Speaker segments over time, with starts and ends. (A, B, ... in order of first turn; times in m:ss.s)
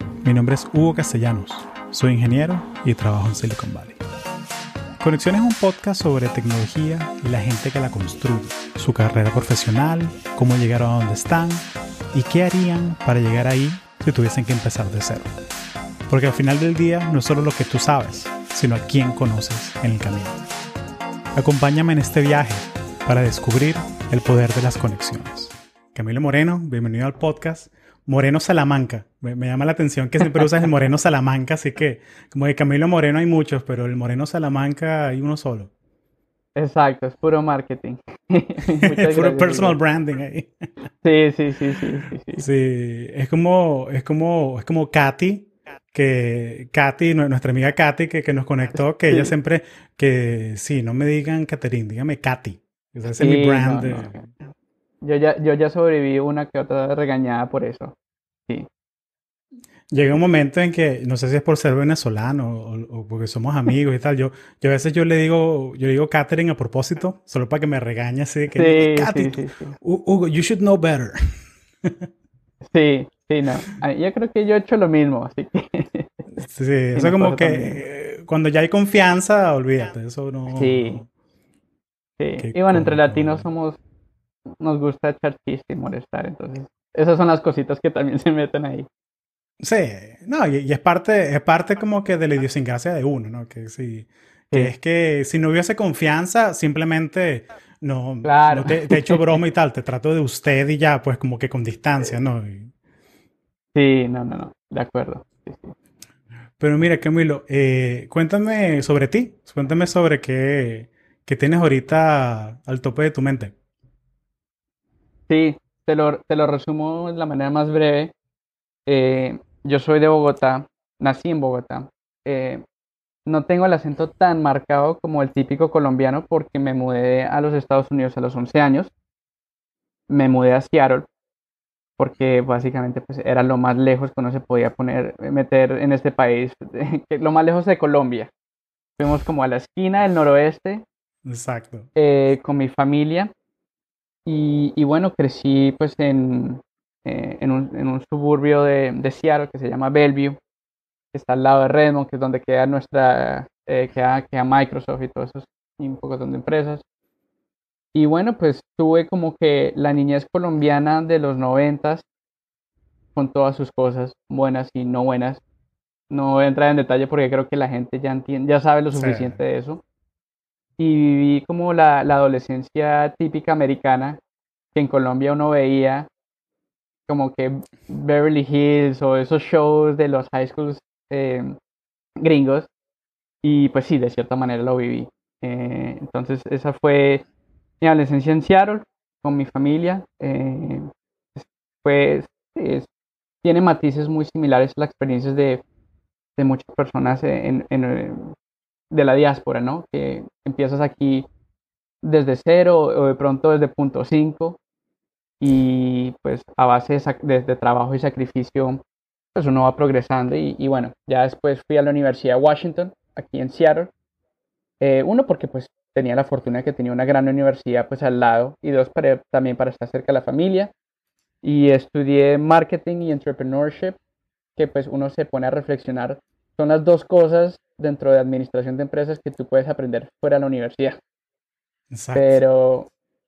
0:00.2-0:04.0 A
0:05.0-0:15.3 A
0:16.1-0:20.4 A
0:21.3-0:35.7 A
0:36.6-0:39.8 B
0:38.8-0:40.5 A
0:41.0-0:42.4 B
0:42.4-0:54.2 A
0:53.2-0:54.3 B
0:55.0-0:57.9 B
0:59.9-1:12.1 A
1:08.5-1:09.8 B
1:12.6-1:16.3 B
1:16.4-1:21.1 A
1:16.9-1:17.8 B
1:20.5-1:21.0 B
1:22.2-1:23.8 B
1:22.4-1:23.4 A
1:24.6-1:28.9 B
1:29.6-1:42.7 A
1:38.2-1:39.2 B
1:43.7-1:45.7 B
1:46.6-1:53.5 A
1:55.3-1:58.1 B
1:58.8-2:02.6 B
2:03.2-2:08.9 B
2:10.1-2:11.1 B
2:12.0-2:18.3 B
2:19.0-2:20.8 B
2:21.2-2:21.9 A
2:22.0-2:23.3 B
2:24.2-2:30.4 B
2:31.1-2:36.8 B
2:37.9-2:42.0 B
2:43.1-2:45.4 B
2:46.1-2:49.8 B
2:48.9-2:49.4 A
2:50.8-2:54.2 B
2:54.7-2:56.1 B
2:57.1-3:01.6 B
3:02.2-3:02.7 B
3:03.4-3:07.2 B
3:07.8-3:12.9 B
3:13.4-3:15.6 B
3:16.4-3:18.3 B
3:18.9-3:21.3 B
3:22.0-3:24.6 B
3:25.4-3:28.8 B
3:29.3-3:33.9 B
3:34.8-3:40.7 B
3:41.4-3:44.0 B
3:44.6-3:51.0 B
3:51.9-3:52.4 A
3:52.1-3:52.9 B